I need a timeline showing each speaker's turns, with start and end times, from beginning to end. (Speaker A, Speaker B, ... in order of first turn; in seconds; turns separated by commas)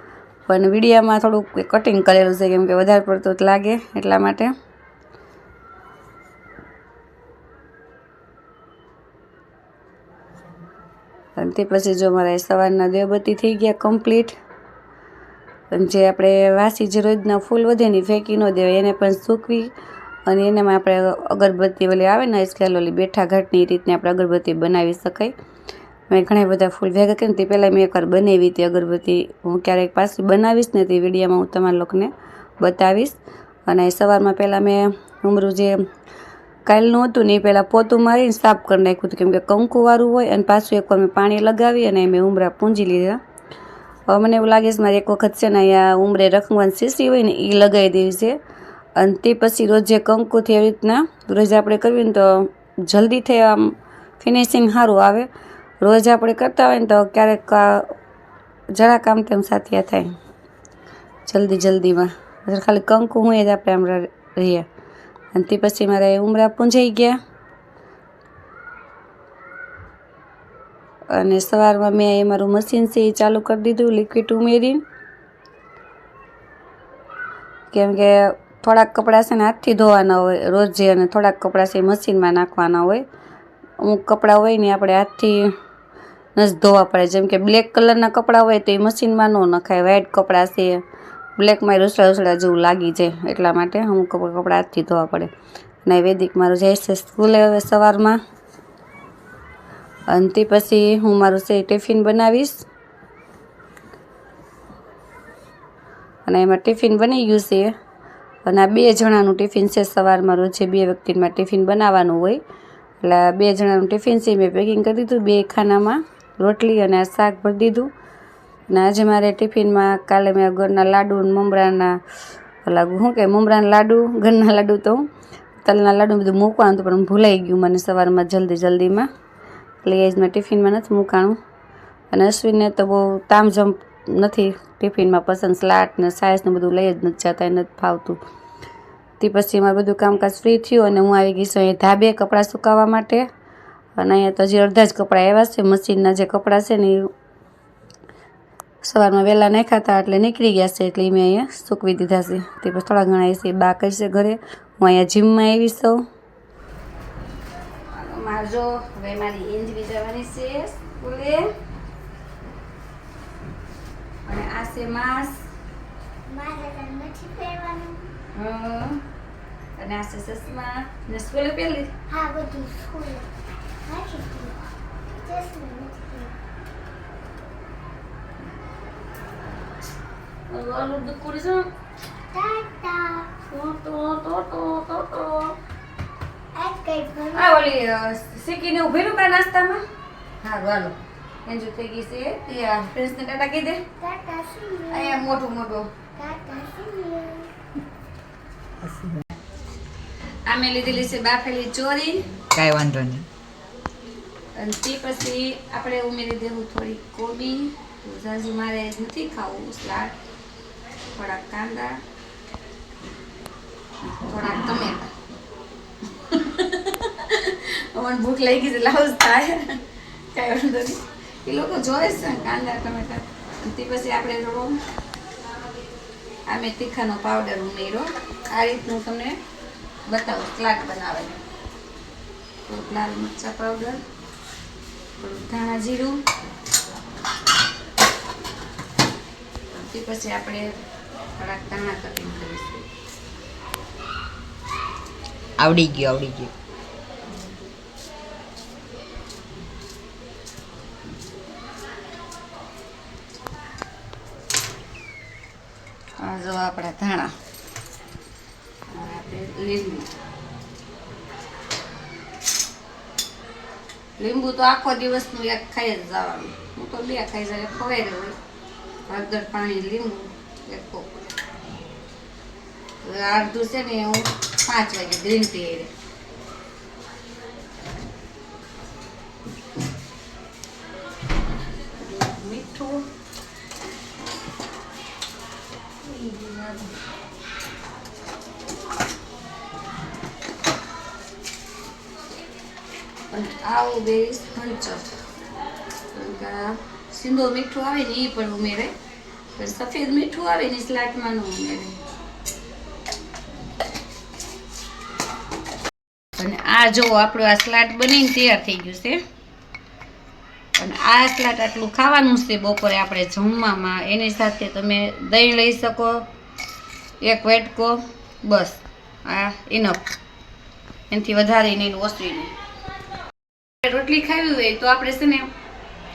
Speaker A: 0.5-4.5, Speaker A: 11.4-14.3, Speaker A: 15.7-19.7, Speaker A: 20.2-25.3, Speaker A: 26.1-35.8, Speaker A: 36.6-43.2, Speaker A: 44.1-48.4, Speaker A: 49.0-55.3, Speaker A: 55.8-57.9, Speaker A: 58.7-60.1, Speaker A: 61.3-64.7, Speaker A: 65.3-67.2, Speaker A: 71.1-74.8, Speaker A: 77.7-83.0, Speaker A: 83.8-85.5, Speaker A: 86.3-90.8, Speaker A: 91.4-95.3, Speaker A: 95.8-98.2, Speaker A: 100.1-102.6, Speaker A: 106.2-107.7, Speaker A: 108.4-112.4, Speaker A: 113.0-117.9, Speaker A: 118.7-122.0, Speaker A: 122.6-125.0, Speaker A: 125.6-129.1, Speaker A: 129.8-131.4, Speaker A: 132.1-138.2, Speaker A: 139.2-143.2, Speaker A: 143.9-147.1, Speaker A: 148.8-156.0, Speaker A: 157.9-161.5, Speaker A: 164.2-165.4, Speaker B: 166.3-168.1, Speaker A: 168.3-169.0, Speaker A: 169.8-171.9, Speaker B: 172.1-173.3, Speaker B: 173.8-174.6, Speaker B: 175.1-176.3, Speaker A: 180.5-181.7, Speaker B: 182.3-183.3, Speaker A: 183.4-185.6, Speaker B: 186.5-187.6, Speaker A: 187.3-189.8, Speaker A: 190.4-193.8, Speaker B: 194.0-195.2, Speaker A: 194.9-195.9, Speaker B: 196.2-197.5, Speaker C: 198.8-199.2, Speaker A: 200.5-202.2, Speaker C: 202.5-203.3, Speaker A: 204.6-210.1, Speaker A: 211.1-212.0, Speaker A: 214.1-215.1, Speaker A: 216.1-219.8, Speaker A: 220.3-224.8, Speaker A: 226.5-229.4, Speaker A: 230.1-231.4, Speaker A: 232.7-234.0, Speaker A: 235.2-236.2, Speaker A: 239.7-240.7, Speaker A: 241.4-242.8, Speaker C: 245.6-246.5, Speaker A: 256.2-257.3, Speaker A: 258.9-260.1, Speaker A: 264.2-268.4, Speaker A: 269.1-271.1, Speaker A: 273.0-275.9, Speaker A: 282.0-283.1, Speaker A: 286.0-286.9, Speaker A: 293.3-295.1, Speaker A: 296.1-298.9, Speaker A: 299.6-302.0, Speaker A: 306.4-309.2, Speaker A: 310.8-316.3, Speaker A: 317.2-320.1, Speaker A: 321.1-322.5, Speaker A: 323.8-325.5